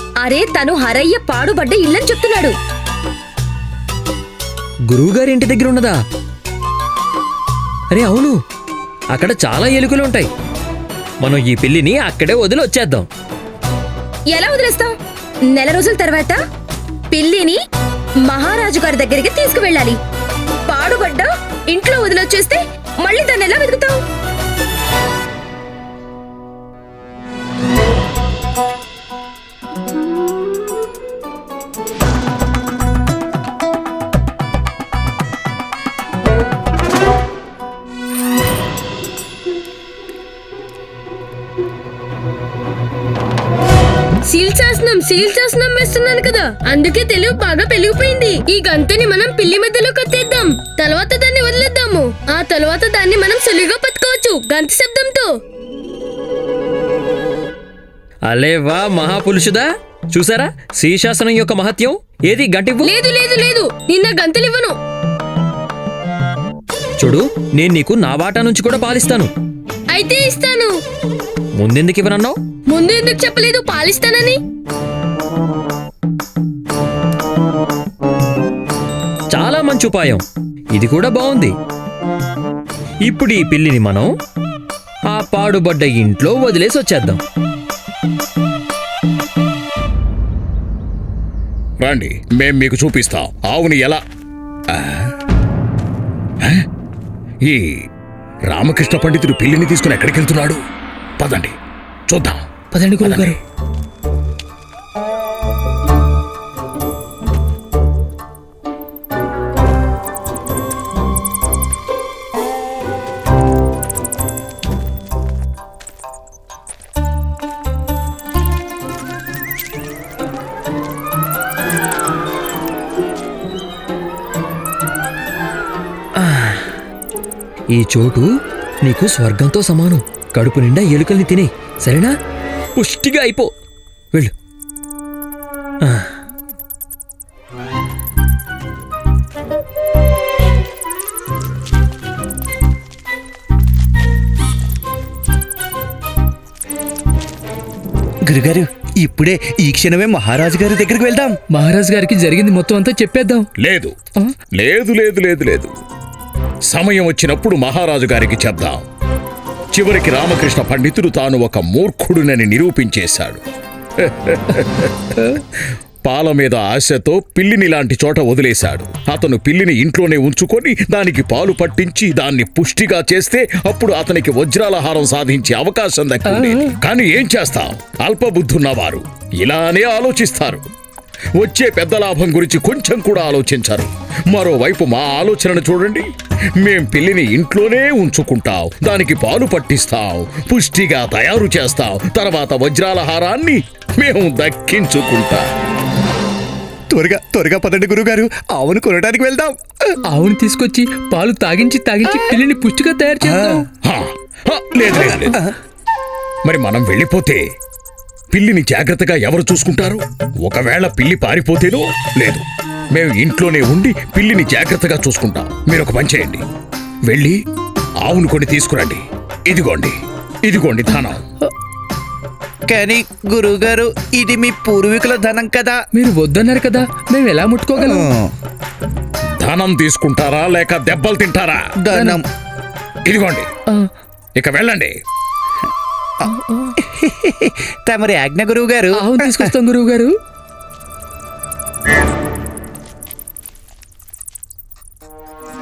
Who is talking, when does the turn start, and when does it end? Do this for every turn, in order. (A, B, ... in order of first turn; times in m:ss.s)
0:00.2-0:02.5 A
0:04.9-0:06.0 B
0:07.9-0:08.4 B
0:09.1-0:10.3 B
0:11.2-0:13.1 B
0:14.3-0:14.9 A
0:15.5-0:16.4 A
0:17.1-0:17.6 A
0:18.2-0:20.0 A
0:20.7-0:24.0 A
0:44.3-0:55.3 C
0:58.3-1:02.9 B
1:02.8-1:04.7 C
1:07.0-1:09.3 B
1:09.9-1:10.8 C
1:11.6-1:12.4 B
1:12.7-1:14.4 C
1:19.3-1:21.5 B
1:23.0-1:24.1 B
1:25.1-1:27.2 B
1:31.8-1:34.0 D
1:34.7-1:35.1 D
1:36.4-1:36.6 D
1:37.4-1:37.8 D
1:38.5-1:40.6 D
1:41.2-1:41.6 D
1:42.1-1:42.5 D
1:42.7-1:43.4 E
1:43.0-1:43.4 D
2:06.2-2:06.7 B
2:07.7-2:08.3 B
2:08.8-2:12.2 B
2:12.8-2:13.5 B
2:15.8-2:16.2 B
2:28.2-2:31.4 F
2:31.5-2:33.5 E
2:33.6-2:33.9 D
2:34.5-2:35.7 D
2:36.7-2:38.8 D
2:39.7-2:43.4 D
2:44.0-2:45.4 D
2:46.0-3:00.6 D
2:56.3-2:56.7 E
3:01.4-3:06.1 D
3:06.6-3:15.5 D
3:16.9-3:19.9 F
3:20.1-3:23.6 E
3:23.2-3:23.6 F
3:23.8-3:25.4 D
3:25.0-3:25.5 F
3:26.4-3:27.4 D
3:28.3-3:36.4 D
3:37.0-3:37.4 D
3:38.0-3:41.2 D
3:42.7-3:45.8 F
3:46.0-3:48.1 E
3:47.8-3:48.3 F
3:49.4-3:51.6 D
3:51.8-3:52.2 F
3:51.9-3:52.2 E
3:53.0-3:53.5 D
3:54.4-3:54.9 D
3:56.3-3:56.7 E
3:56.8-3:59.5 F
3:59.0-4:00.1 E